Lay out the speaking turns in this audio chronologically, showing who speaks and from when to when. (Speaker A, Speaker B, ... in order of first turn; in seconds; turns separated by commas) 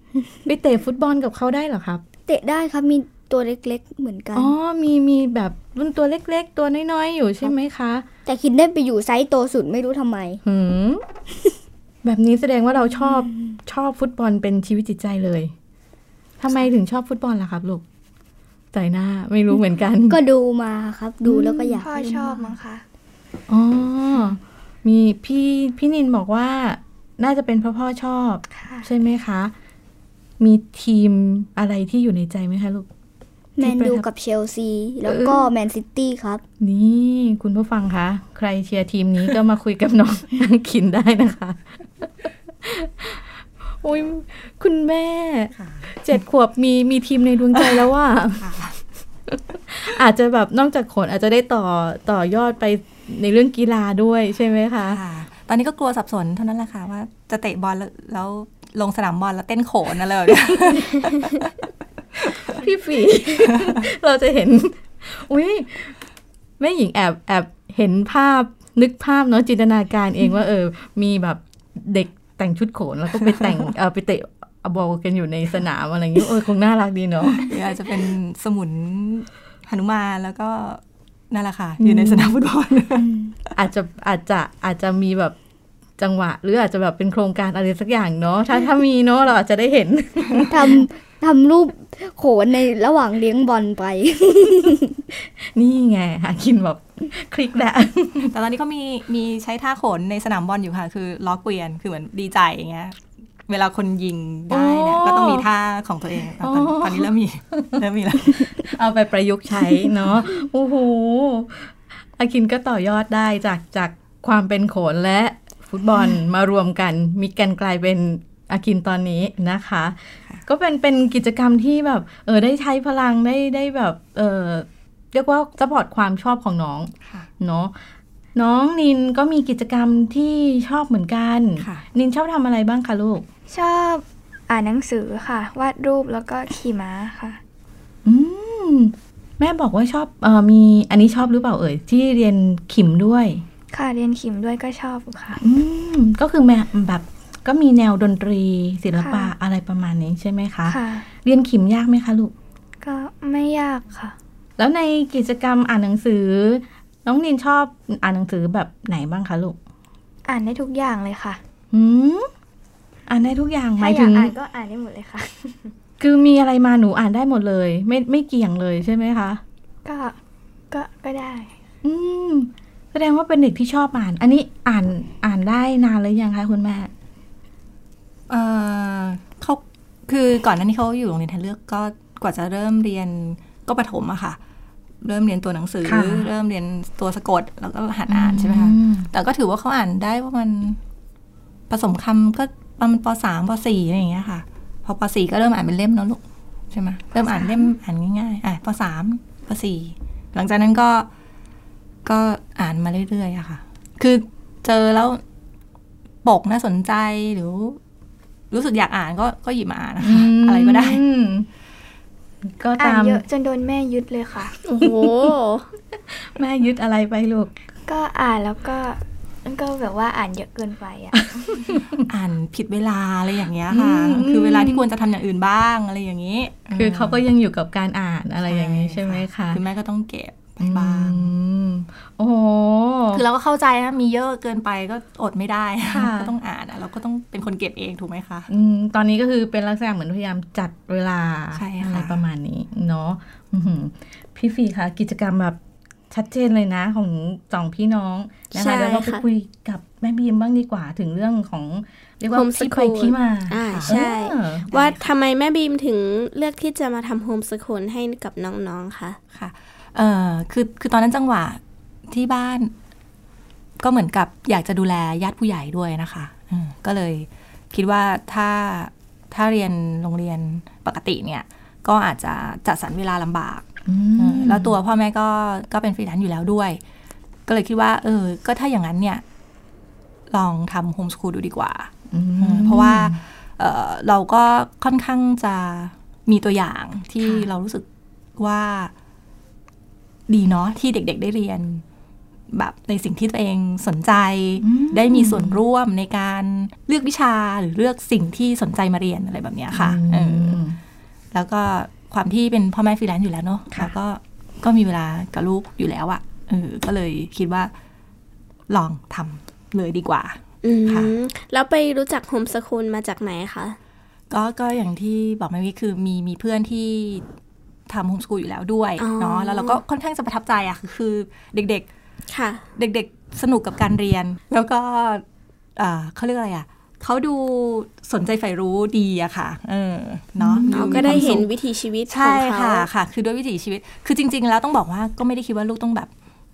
Speaker A: 0.5-2.0, Speaker B: 2.3-4.5, Speaker A: 4.3-8.1, Speaker B: 8.3-10.4, Speaker A: 10.4-11.0, Speaker A: 12.0-15.5, Speaker B: 13.0-13.6, Speaker A: 16.4-17.8, Speaker A: 18.7-20.2, Speaker B: 20.1-22.6, Speaker A: 21.2-21.8, Speaker C: 21.8-22.8, Speaker A: 23.5-29.5, Speaker C: 28.6-28.9, Speaker A: 30.4-32.9, Speaker B: 33.6-36.4, Speaker A: 33.6-34.0, Speaker A: 35.0-35.5, Speaker A: 36.6-48.5, Speaker D: 45.6-45.9, Speaker D: 48.3-48.8, Speaker A: 49.3-55.0, Speaker D: 54.9-61.5, Speaker A: 60.8-61.1, Speaker D: 62.2-62.5, Speaker A: 62.3-66.0, Speaker A: 66.6-77.5, Speaker D: 77.3-83.1, Speaker A: 81.8-82.4, Speaker B: 83.0-83.3, Speaker A: 83.5-85.4, Speaker A: 86.0-90.9, Speaker B: 90.5-95.0, Speaker A: 95.4-98.3, Speaker D: 98.2-108.7, Speaker A: 104.5-105.5, Speaker A: 106.4-107.8, Speaker A: 108.3-127.8, Speaker A: 128.3-133.2, Speaker D: 131.6-131.8, Speaker C: 133.5-137.4, Speaker A: 138.1-143.4, Speaker C: 143.7-145.4, Speaker A: 145.4-152.3, Speaker C: 149.0-149.3, Speaker C: 150.7-151.1, Speaker C: 152.8-154.2, Speaker A: 154.6-159.6, Speaker C: 160.3-161.4, Speaker A: 161.7-162.3, Speaker A: 163.1-164.3, Speaker C: 163.8-165.7, Speaker A: 166.0-169.4, Speaker C: 169.8-170.2, Speaker C: 170.7-171.5, Speaker A: 171.8-176.9, Speaker D: 178.3-184.4, Speaker D: 185.0-190.8, Speaker A: 185.8-186.3, Speaker A: 188.1-189.1, Speaker D: 191.7-201.1, Speaker D: 202.1-205.2, Speaker D: 206.2-207.8, Speaker D: 208.5-211.0, Speaker A: 210.0-211.5, Speaker A: 212.5-213.2, Speaker C: 212.8-214.5, Speaker E: 214.6-215.7, Speaker A: 216.1-217.5, Speaker C: 217.9-221.8, Speaker A: 221.6-222.1, Speaker D: 222.1-227.2, Speaker A: 223.7-224.8, Speaker A: 226.7-229.6, Speaker D: 228.4-231.3, Speaker A: 230.6-233.2, Speaker D: 233.1-238.5, Speaker A: 235.9-236.3, Speaker A: 238.5-245.6, Speaker D: 241.6-242.2, Speaker A: 246.1-254.8, Speaker E: 248.5-249.2, Speaker E: 252.3-259.2, Speaker D: 253.6-254.0, Speaker D: 254.7-255.0, Speaker D: 259.3-262.7, Speaker D: 263.8-276.8, Speaker A: 273.9-274.8, Speaker D: 277.5-279.2, Speaker D: 280.3-287.9, Speaker A: 282.1-283.2, Speaker A: 287.2-287.5, Speaker D: 288.4-288.9, Speaker D: 290.3-291.8, Speaker D: 292.5-300.6, Speaker A: 294.6-295.6, Speaker A: 299.7-300.8, Speaker D: 301.3-307.7, Speaker D: 308.7-311.1, Speaker E: 310.6-313.8, Speaker D: 314.3-317.2, Speaker D: 317.9-321.9, Speaker E: 319.0-319.8, Speaker E: 322.3-322.6, Speaker D: 322.8-325.2, Speaker D: 325.8-331.5, Speaker A: 330.4-331.4, Speaker E: 330.7-332.9, Speaker D: 332.1-336.1